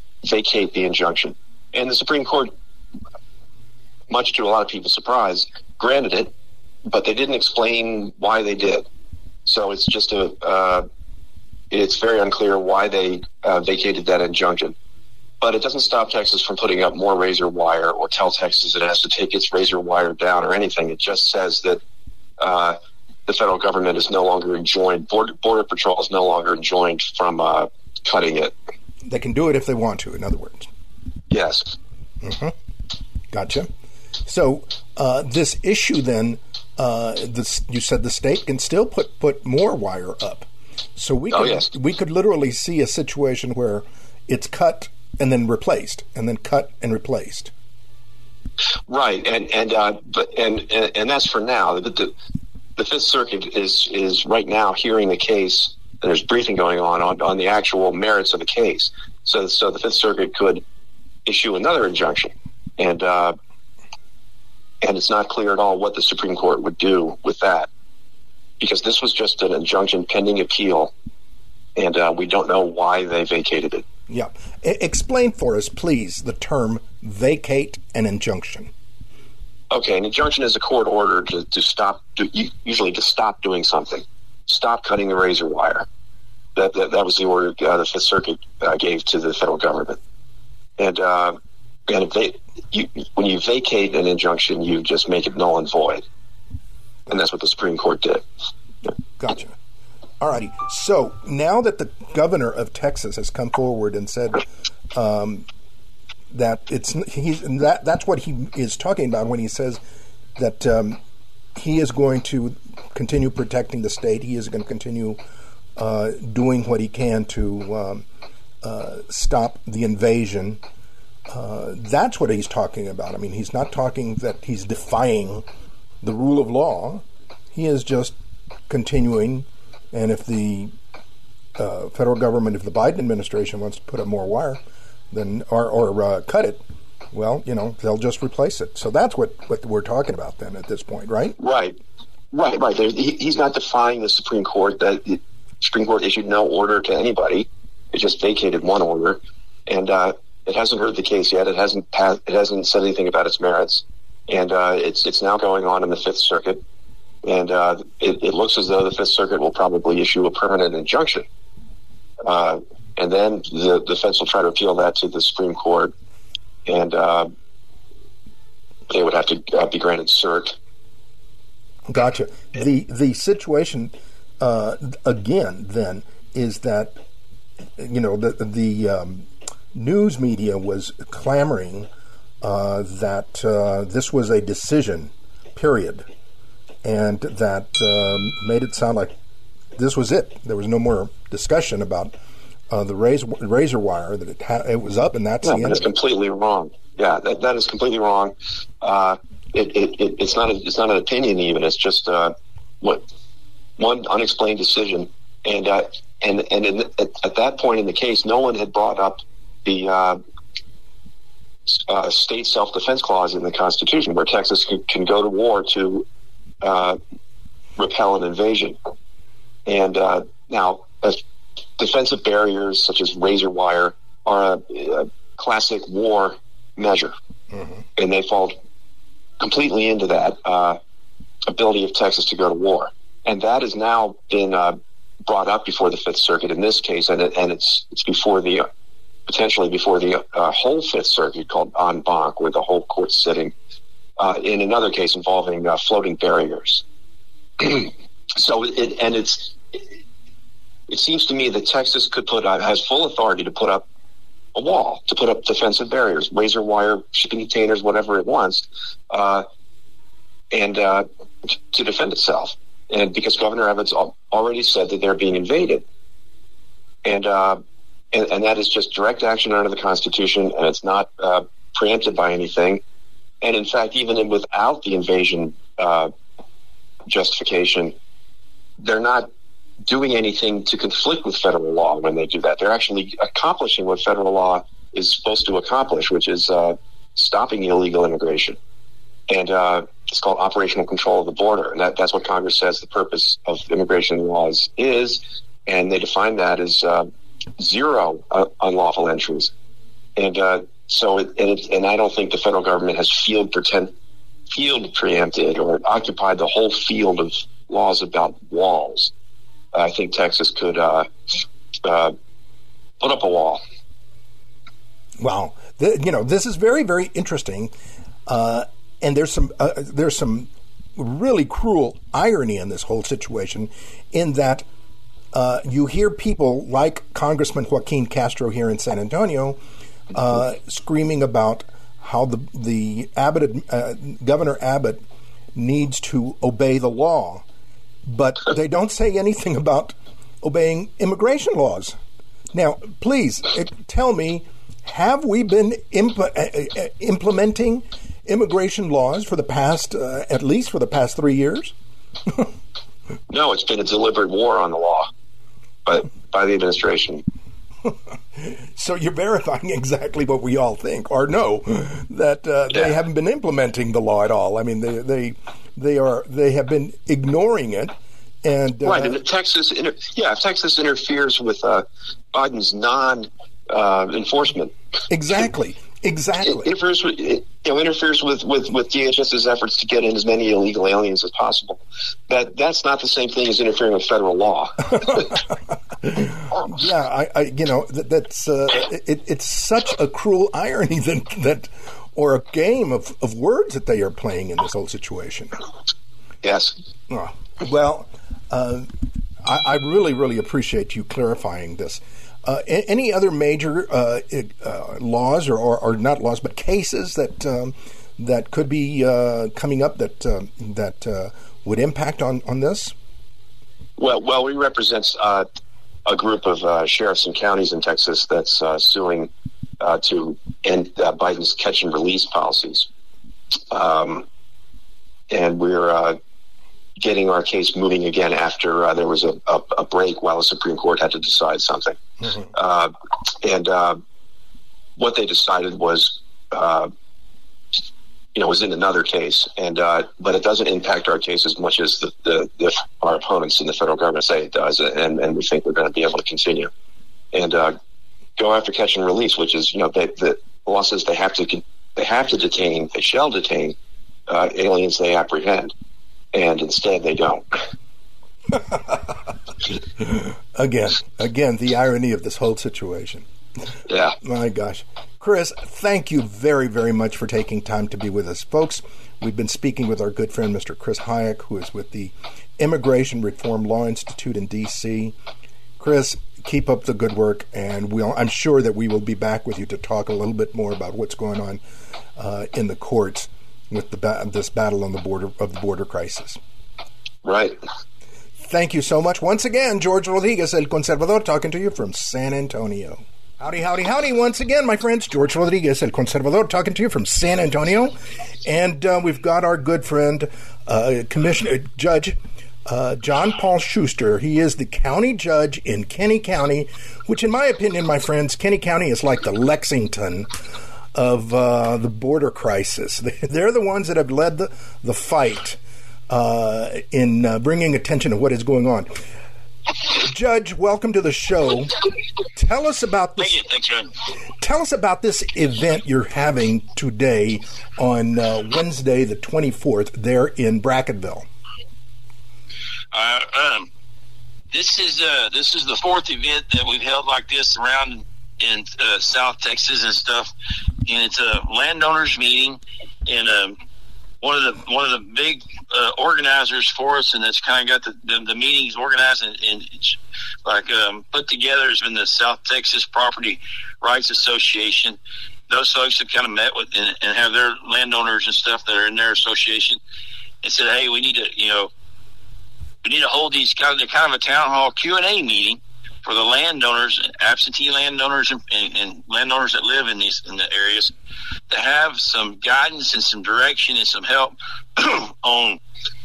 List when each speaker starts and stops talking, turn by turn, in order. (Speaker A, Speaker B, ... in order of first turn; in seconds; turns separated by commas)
Speaker A: 0.2-2.5, Speaker A: 4.1-6.3, Speaker A: 6.9-8.9, Speaker A: 9.5-10.9, Speaker A: 11.7-14.8, Speaker A: 15.4-21.8, Speaker A: 22.4-28.5, Speaker B: 29.1-30.7, Speaker A: 31.3-31.7, Speaker B: 32.2-32.5, Speaker B: 33.3-33.7, Speaker B: 34.3-47.5, Speaker A: 41.3-41.7, Speaker A: 48.9-52.1, Speaker A: 52.8-60.6, Speaker A: 61.3-63.4, Speaker A: 64.8-67.7, Speaker A: 68.6-70.9, Speaker A: 71.8-73.8, Speaker B: 74.1-78.7, Speaker A: 79.7-85.9, Speaker A: 86.6-90.0, Speaker A: 90.8-91.4, Speaker A: 91.9-96.0, Speaker A: 97.1-98.2, Speaker B: 99.2-99.5, Speaker B: 100.2-105.5, Speaker B: 106.3-109.8, Speaker B: 110.4-111.0, Speaker B: 111.6-115.2, Speaker B: 115.8-118.0, Speaker B: 118.6-120.6, Speaker B: 121.3-125.5, Speaker B: 126.0-128.1, Speaker B: 128.7-130.7, Speaker B: 131.6-136.6, Speaker B: 137.1-141.4, Speaker A: 141.4-141.8, Speaker A: 142.3-156.6, Speaker A: 157.2-161.2, Speaker A: 162.2-165.9, Speaker A: 166.7-167.3, Speaker A: 168.9-170.6, Speaker B: 171.9-177.0, Speaker B: 177.8-181.9, Speaker B: 182.4-186.1, Speaker B: 186.8-189.2, Speaker B: 189.8-192.2, Speaker B: 192.7-195.9, Speaker A: 195.4-203.1, Speaker A: 203.8-210.2, Speaker A: 211.7-216.1, Speaker A: 216.6-217.0, Speaker A: 217.8-218.8, Speaker A: 219.7-221.2, Speaker A: 221.8-227.1, Speaker A: 228.0-228.6, Speaker A: 229.4-230.8, Speaker A: 231.5-238.7, Speaker A: 239.3-243.5, Speaker A: 244.2-246.8, Speaker A: 247.6-249.8, Speaker A: 250.9-253.8, Speaker A: 254.6-259.4, Speaker A: 260.5-265.8, Speaker A: 267.1-267.6, Speaker A: 268.1-272.8, Speaker A: 273.4-276.1, Speaker A: 277.1-277.9, Speaker A: 278.8-279.3, Speaker A: 279.9-288.6, Speaker A: 289.3-297.1, Speaker A: 297.6-299.5, Speaker A: 300.2-303.9, Speaker A: 304.5-309.1, Speaker A: 309.7-312.1, Speaker A: 313.0-313.6, Speaker B: 315.2-317.7, Speaker B: 318.3-324.7, Speaker B: 325.3-329.6, Speaker B: 330.1-335.0, Speaker B: 335.6-337.4, Speaker B: 338.1-342.0, Speaker B: 342.5-351.7, Speaker A: 353.3-355.1, Speaker A: 355.9-357.2, Speaker B: 357.9-369.2, Speaker A: 368.8-374.7, Speaker B: 375.1-376.7, Speaker A: 376.6-385.3, Speaker B: 386.0-395.6, Speaker A: 396.4-396.7, Speaker B: 397.1-398.9, Speaker B: 399.4-412.9, Speaker A: 414.0-415.4, Speaker A: 416.1-422.9, Speaker A: 423.7-424.2, Speaker A: 425.3-426.2, Speaker A: 427.0-432.0, Speaker A: 432.5-434.0, Speaker A: 435.0-436.9, Speaker A: 438.4-446.7, Speaker A: 447.3-447.8, Speaker A: 448.4-453.8, Speaker A: 454.3-455.7, Speaker A: 456.3-457.5, Speaker B: 458.5-458.9, Speaker B: 460.0-463.2, Speaker A: 463.9-464.2, Speaker B: 464.2-475.1, Speaker B: 475.8-481.6, Speaker B: 482.2-486.4, Speaker A: 487.2-487.6, Speaker B: 488.5-510.3, Speaker B: 510.9-515.6, Speaker B: 516.1-519.0, Speaker B: 519.9-521.7, Speaker B: 522.3-523.4, Speaker C: 523.2-523.9, Speaker B: 524.4-531.3, Speaker C: 532.9-533.7, Speaker C: 534.5-540.3, Speaker C: 540.9-543.6, Speaker C: 544.2-555.0, Speaker C: 555.5-559.8, Speaker C: 560.4-561.7, Speaker C: 562.8-570.9, Speaker C: 571.5-575.6